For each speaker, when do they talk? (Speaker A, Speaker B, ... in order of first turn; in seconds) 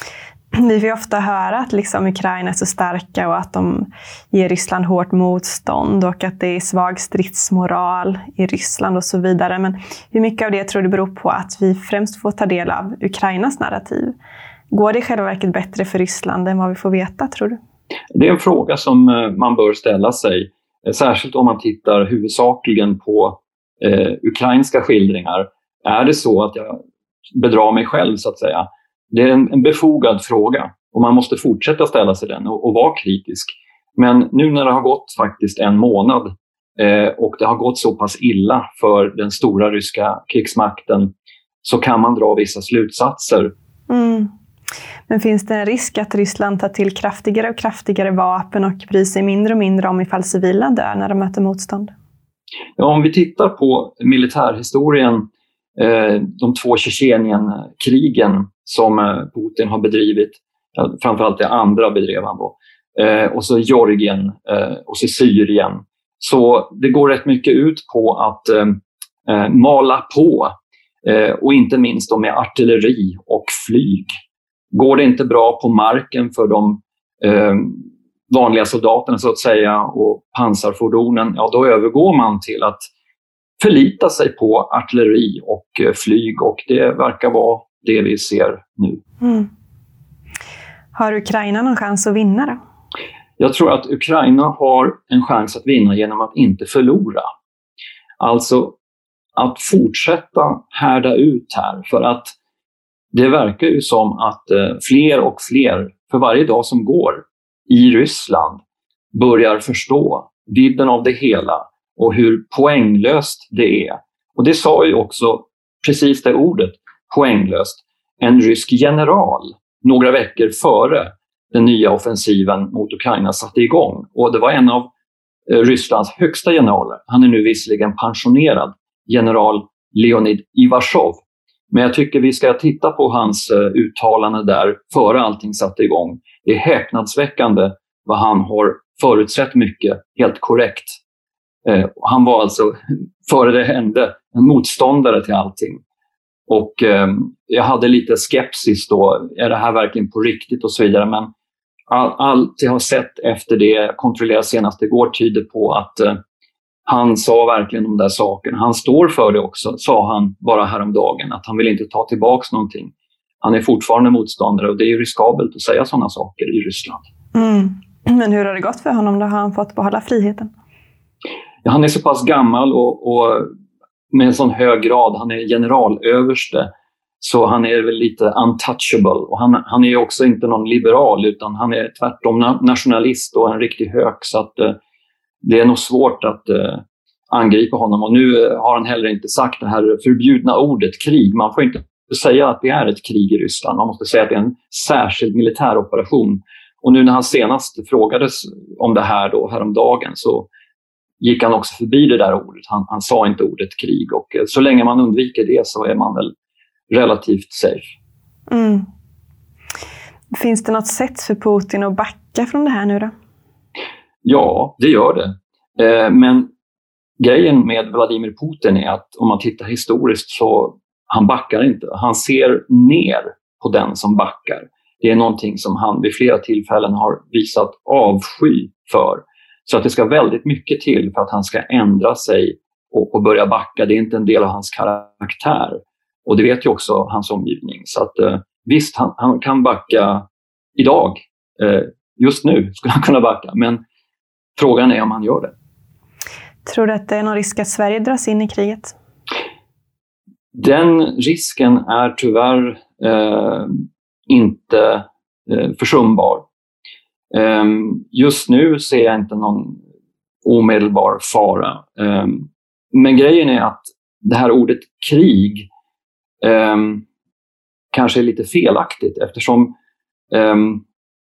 Speaker A: 0.5-14.2, 14.7-17.6, 43.9-44.3, 45.1-51.9, 89.2-89.5, 90.9-92.6, 167.3-170.5, 208.5-208.8, 210.3-213.1, 246.6-248.9
Speaker B: 18.1-41.1, 41.6-43.5, 52.8-55.2, 55.8-74.1, 74.7-82.8, 83.6-89.0, 93.4-97.2, 98.2-98.8, 99.3-102.3, 103.1-108.6, 109.1-124.9, 125.5-141.0, 141.6-145.8, 146.5-151.3, 151.9-156.2, 156.8-167.1, 171.6-173.5, 174.1-176.7, 177.2-184.8, 185.4-200.5, 201.2-206.3, 206.9-207.9, 214.2-216.5, 217.2-243.8, 244.6-245.5, 250.5-256.4, 257.3-259.8, 260.4-265.7, 266.4-267.0, 267.9-269.7, 270.3-270.8